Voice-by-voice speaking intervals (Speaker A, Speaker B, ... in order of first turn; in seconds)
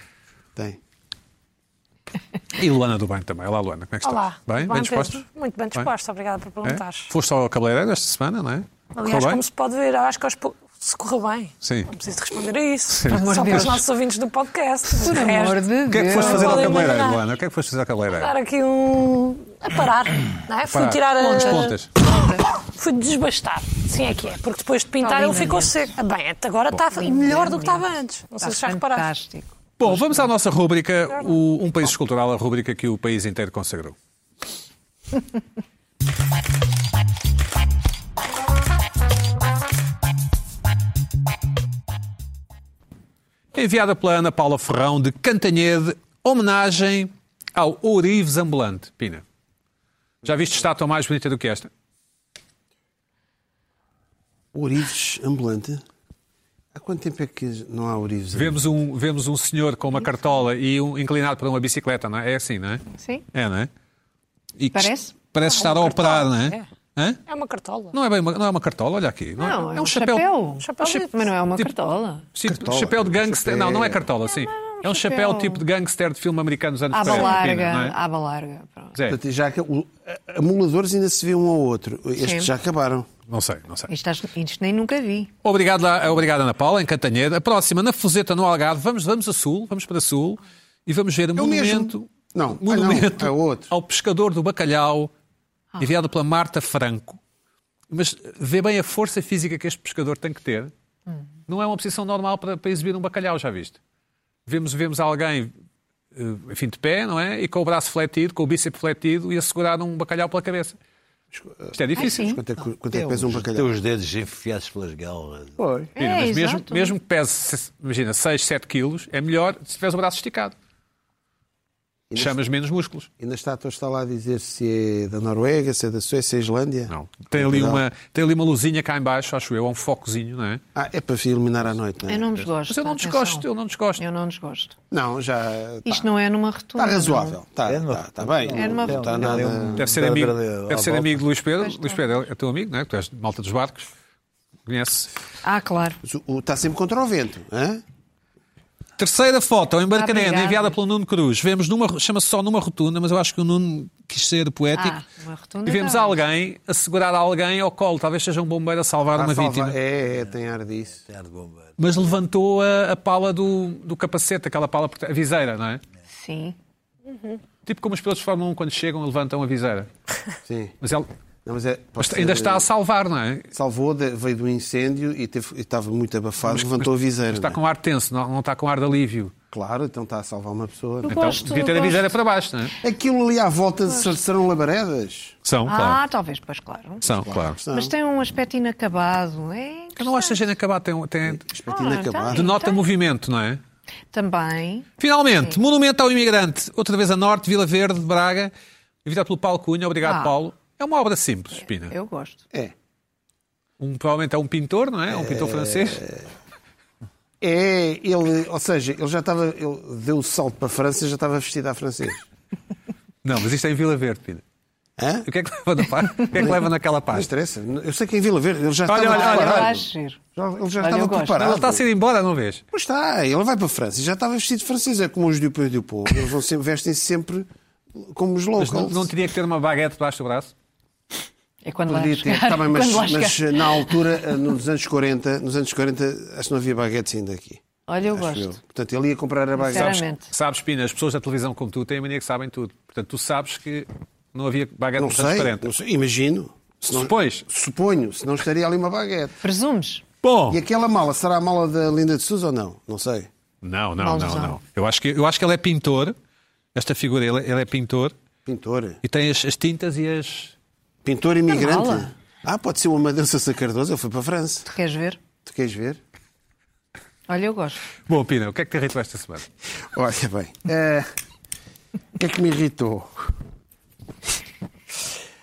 Speaker A: 2.5-5.2, 6.6-9.4, 11.6-11.9, 12.9-13.8, 15.9-18.3, 20.6-21.9, 29.8-34.0, 43.5-49.2, 50.2-51.7, 58.3-63.7, 64.6-67.2, 67.9-70.3, 72.3-78.0, 83.3-83.9, 85.4-95.1, 95.8-97.2, 97.9-100.7, 101.5-103.8, 104.5-105.5, 106.1-110.8, 111.7-112.4, 116.0-120.5, 122.2-123.1, 126.9-130.6, 132.3-134.0, 139.7-143.9, 144.7-145.1, 149.0-155.0, 155.7-159.8, 161.8-165.8, 167.7-169.9, 170.8-171.1, 172.0-173.5, 176.5-179.3, 181.1-182.8, 185.4-186.0, 187.0-187.6, 190.0-191.4, 192.3-193.6, 195.0-198.5, 199.0-201.9, 203.8-206.0, 213.2-214.4, 215.2-217.3, 218.8-219.8, 221.3-222.6, 228.6-230.5, 240.3-245.7, 246.9-247.4, 250.2-250.6, 253.6-256.1, 256.7-258.1, 259.0-260.5, 268.1-269.5
Speaker B: 4.0-7.1, 8.9-17.2, 18.1-29.1, 65.4-66.6, 67.3-67.9, 70.6-71.3
Speaker C: 13.1-13.8, 15.0-16.9, 21.2-22.5, 25.0-25.9, 26.9-27.8, 28.4-30.3, 62.9-63.2, 64.7-65.1, 69.4-72.2, 74.3-75.6, 76.9-78.9, 82.2-82.5, 83.9-85.3, 112.0-112.4, 116.0-117.0, 132.1-133.5, 134.0-134.7, 135.8-137.4, 138.5-139.5, 141.6-142.0, 145.4-146.0, 149.9-150.8, 154.7-156.2, 166.1-166.6, 181.1-182.1, 183.9-184.1, 185.7-187.0, 187.7-190.4, 191.7-192.8, 194.1-194.9, 200.0-200.3, 201.6-202.4, 219.1-220.2, 220.8-221.5, 231.6-234.0, 237.9-238.6, 239.6-240.3, 249.4-250.0, 254.0-254.6, 261.5-262.1, 264.7-265.2, 267.3-267.8
Speaker D: 54.5-55.8, 56.7-58.6, 72.4-74.1, 79.1-83.1, 91.3-93.7, 111.3-113.7, 115.5-115.9, 122.1-122.4, 123.2-127.8, 130.7-132.3, 134.9-136.1, 136.8-139.9, 146.0-147.8, 159.1-161.0, 170.4-170.8, 171.4-172.7, 173.5-177.6, 179.5-181.4, 182.8-185.4, 187.1-187.9, 191.2-192.6, 205.1-206.2, 207.4-212.2, 215.0-215.3, 216.3-221.8, 222.7-229.1, 231.9-240.1, 245.0-249.4, 250.5-253.3, 258.4-259.0, 261.0-264.7, 265.4-266.0, 269.9-271.1, 272.1-273.3
Speaker E: 112.9-115.5, 137.7-141.2, 161.0-161.7